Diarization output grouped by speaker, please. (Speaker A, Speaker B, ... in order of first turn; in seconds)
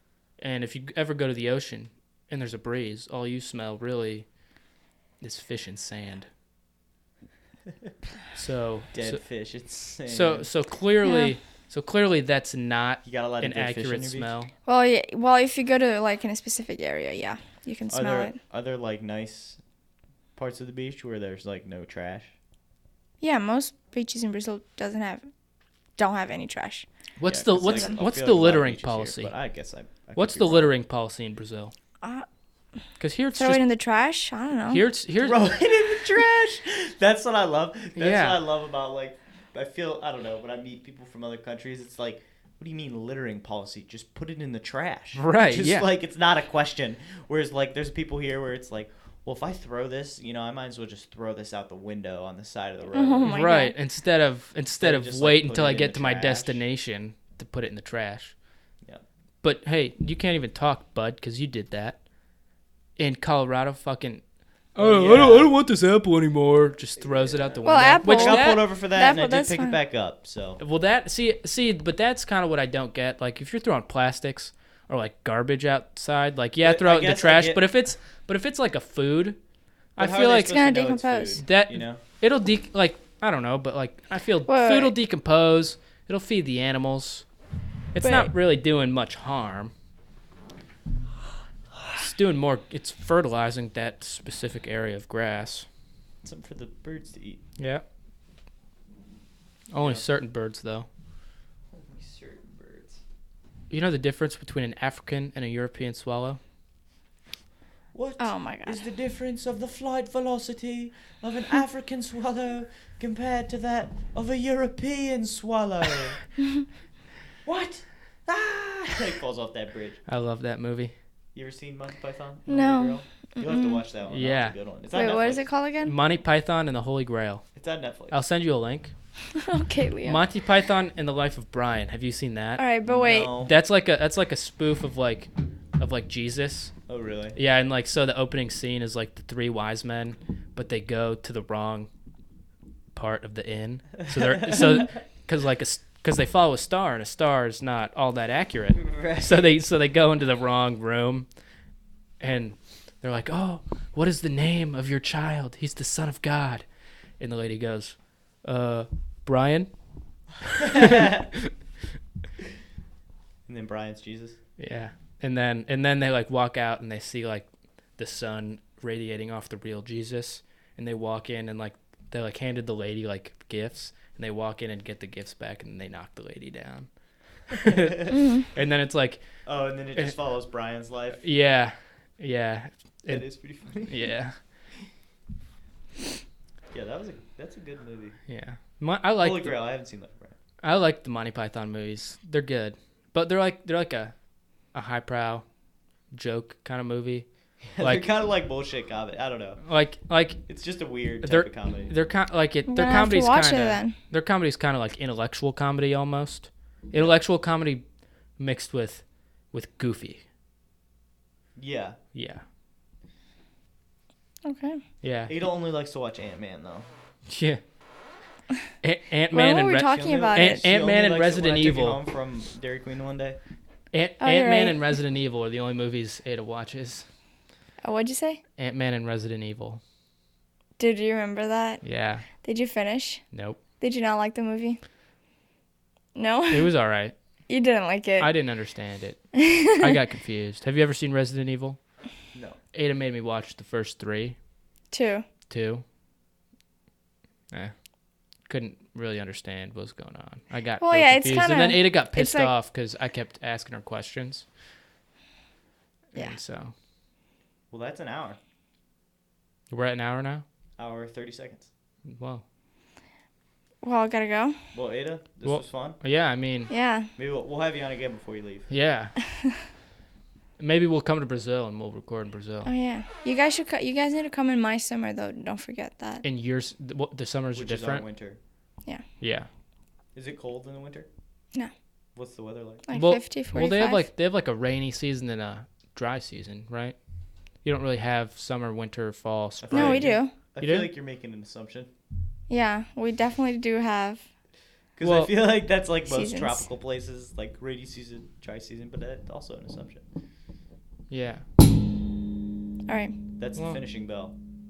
Speaker A: 0.4-4.2, 5.2-6.3, 8.3-9.2, 10.0-14.5, 27.2-29.3, 30.1-31.7, 33.0-33.6, 34.7-35.4, 38.0-38.4, 45.1-45.9, 53.2-58.3, 59.4-62.0, 63.0-64.2, 64.7-68.7, 70.6-79.4, 80.0-80.6, 81.3-87.2, 87.9-89.7, 91.9-95.7, 97.6-97.8, 99.7-100.9, 103.7-106.4, 120.1-120.9, 124.1-124.5, 125.8-127.5, 128.1-128.9, 130.0-132.6, 133.3-136.7, 137.3-141.9, 142.9-151.3, 152.2-156.6, 157.2-159.7, 160.4-161.5, 164.6-167.5, 168.0-176.9, 177.5-179.2, 181.2-184.3, 188.3-189.6, 190.6-194.1, 194.7-195.4, 196.1-197.2, 197.8-198.0, 199.6-200.4, 201.2-207.8, 208.4-210.2, 212.1-212.4, 215.0-215.3, 217.3-217.6, 218.8-222.0, 223.9-227.1, 228.6-229.8, 231.8-232.2, 233.3-233.6, 236.5-237.1, 238.2-241.8, 242.7-244.3, 245.5-245.8, 248.5-254.4, 256.1-256.7, 259.7-260.4, 262.1-262.4, 265.4-266.7, 268.7-269.1, 270.6-272.7, 276.2-278.0, 279.2-279.5, 282.9-286.9, 287.6-290.9, 295.0-295.3, 301.1-301.4
Speaker B: 8.9-10.5, 13.0-14.3, 17.9-19.6, 20.4-22.3, 27.3-30.7, 35.2-53.4, 54.8-56.6, 64.8-65.5, 67.0-70.6, 76.6-77.6, 80.0-82.0, 96.2-97.4, 99.8-100.0, 101.7-103.0, 107.9-116.2, 117.4-120.0, 121.3-125.5, 127.5-128.2, 132.8-133.5, 136.9-137.4, 148.8-149.3, 160.6-161.2, 163.5-164.4, 179.4-181.2, 183.1-184.1, 186.7-188.2, 189.2-190.3, 197.8-199.6, 200.5-201.9, 206.9-207.2, 211.6-212.0, 215.3-216.9, 219.8-223.4, 257.7-258.4, 260.8-261.7, 264.7-266.0, 267.1-268.7, 277.5-278.4, 280.1-281.1, 282.1-282.8, 289.6-291.9, 295.0-300.0, 303.4-304.3
Speaker C: 11.0-11.3, 14.7-18.4, 23.2-25.3, 26.0-26.9, 33.3-34.8, 52.9-53.7, 67.6-69.8, 80.3-81.4, 84.5-84.9, 88.0-88.3, 108.2-108.8, 122.5-123.8, 124.9-125.9, 129.3-130.2, 132.6-133.3, 178.1-178.4, 202.7-203.9, 214.4-214.8, 219.3-220.6, 224.2-224.9, 227.8-228.4, 230.8-231.8, 232.4-233.2, 233.8-234.8, 236.1-236.7, 237.5-238.3, 239.3-239.9, 244.9-245.2, 250.8-252.5, 263.8-264.6, 266.7-267.1, 272.6-276.2, 282.9-284.0, 289.7-290.3, 292.5-294.2, 296.1-296.6, 302.9-303.1